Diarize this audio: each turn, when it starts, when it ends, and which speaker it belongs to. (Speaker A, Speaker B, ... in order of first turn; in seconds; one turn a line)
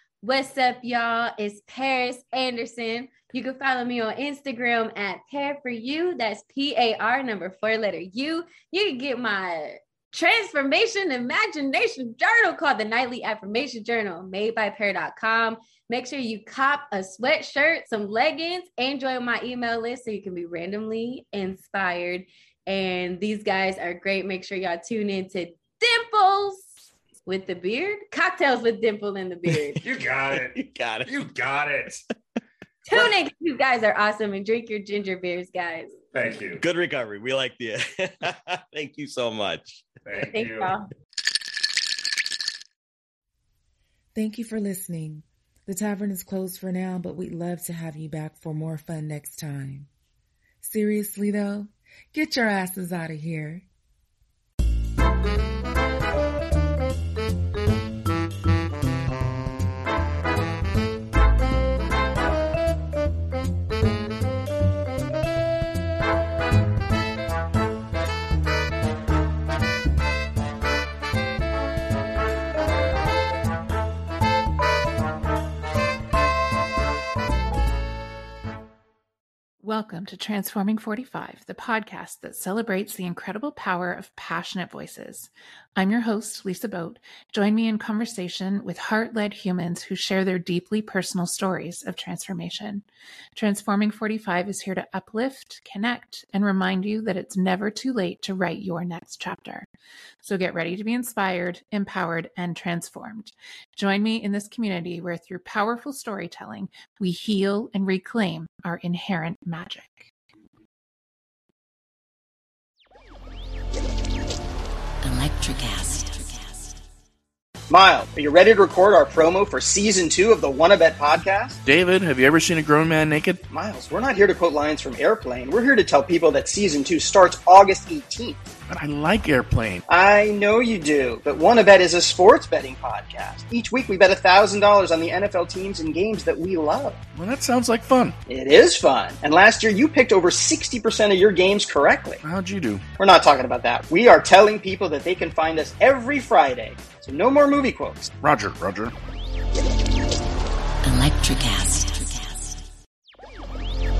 Speaker A: 0.2-26.7
Speaker A: 27.2-29.8
Speaker B: 29.8-32.0
Speaker C: 30.3-31.1
Speaker A: 32.8-35.9
Speaker B: 36.1-36.6
Speaker C: 36.6-39.9
Speaker B: 40.0-40.7
Speaker A: 40.3-40.9
Speaker D: 44.1-49.9
Speaker D: 50.6-53.6
Speaker E: 79.6-99.7
Speaker E: 100.2-110.1
Speaker F: 115.0-116.8
Speaker G: 117.7-121.6
Speaker H: 121.6-123.4
Speaker G: 123.5-128.5
Speaker H: 128.7-129.8
Speaker G: 129.9-137.0
Speaker H: 137.1-138.2
Speaker G: 138.3-142.2
Speaker H: 142.2-142.8
Speaker G: 143.0-148.1
Speaker H: 148.2-148.9
Speaker F: 150.8-152.6